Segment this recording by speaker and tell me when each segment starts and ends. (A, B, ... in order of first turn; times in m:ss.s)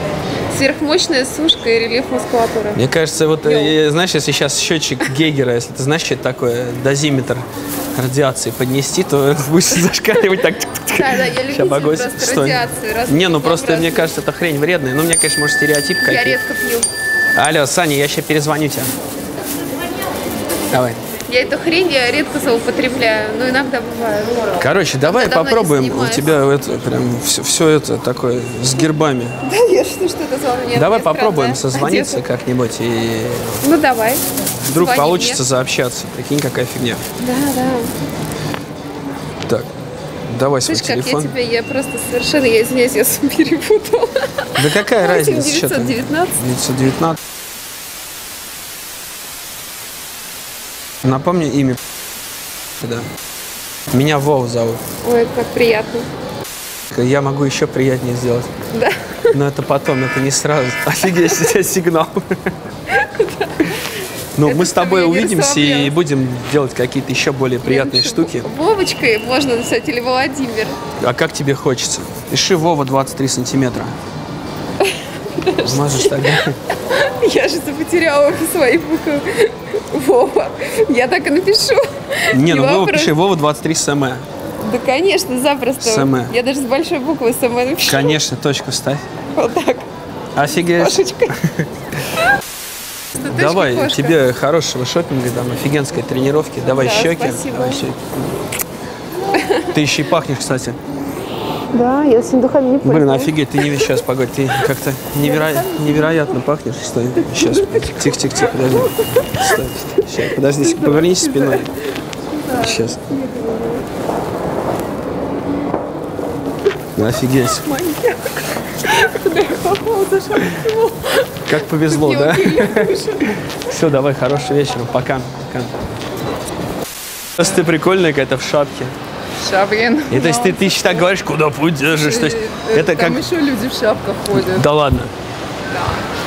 0:00.5-0:02.8 A
0:02.7-0:16.4 B
0:03.4-0:03.8 A
0:10.9-0:14.2 A
0:16.0-0:16.9 A
0:17.3-0:18.9 B
0:20.7-0:21.0 B
0:21.1-0:26.4 A
0:24.6-0:29.4 B
0:29.4-0:32.2 A
0:30.7-0:33.6 B
0:33.6-0:35.4 A
0:34.6-0:37.0 B
0:37.2-0:37.9 A
0:40.3-0:41.3 B
0:40.6-0:46.4 A
0:44.6-0:47.2 B
0:51.0-0:51.8 B
0:52.8-0:53.1 B
0:53.9-0:54.8 B
0:55.0-0:56.1 A
0:56.9-0:58.5 B
0:58.7-0:59.4 A
0:59.3-1:02.5 B
1:01.1-1:01.5 A
1:02.9-1:03.7 A
1:04.3-1:08.5 B
1:04.4-1:06.0 A
1:07.6-1:10.8 A
1:10.9-1:14.0 B
1:14.8-1:23.1 A
1:15.6-1:16.6 B
1:22.3-1:24.2 B
1:24.6-1:28.2 A
1:25.8-1:26.3 B
1:27.8-1:29.0 B
1:29.3-1:29.8 A
1:30.3-1:31.6 B
1:30.5-1:31.3 A
1:33.1-1:33.6 C
1:33.2-1:38.4 B
1:36.7-1:37.9 A
1:39.3-1:39.7 A
1:39.7-1:40.8 B
1:41.7-1:43.9 A
1:42.8-1:51.7 B
1:45.2-1:46.4 A
1:47.2-1:48.1 A
1:48.7-1:51.7 A
1:52.5-1:52.8 C
1:52.6-1:53.0 B
1:53.0-1:53.8 A
1:56.9-1:57.7 B
1:57.6-2:01.3 A
1:59.9-2:00.9 C
2:01.4-2:03.0 B
2:01.8-2:03.3 A
2:03.6-2:05.8 B
2:07.4-2:08.9 B
2:09.4-2:11.2 C
2:10.1-2:13.2 B
2:11.8-2:14.7 C
2:14.3-2:15.1 B
2:15.7-2:16.0 C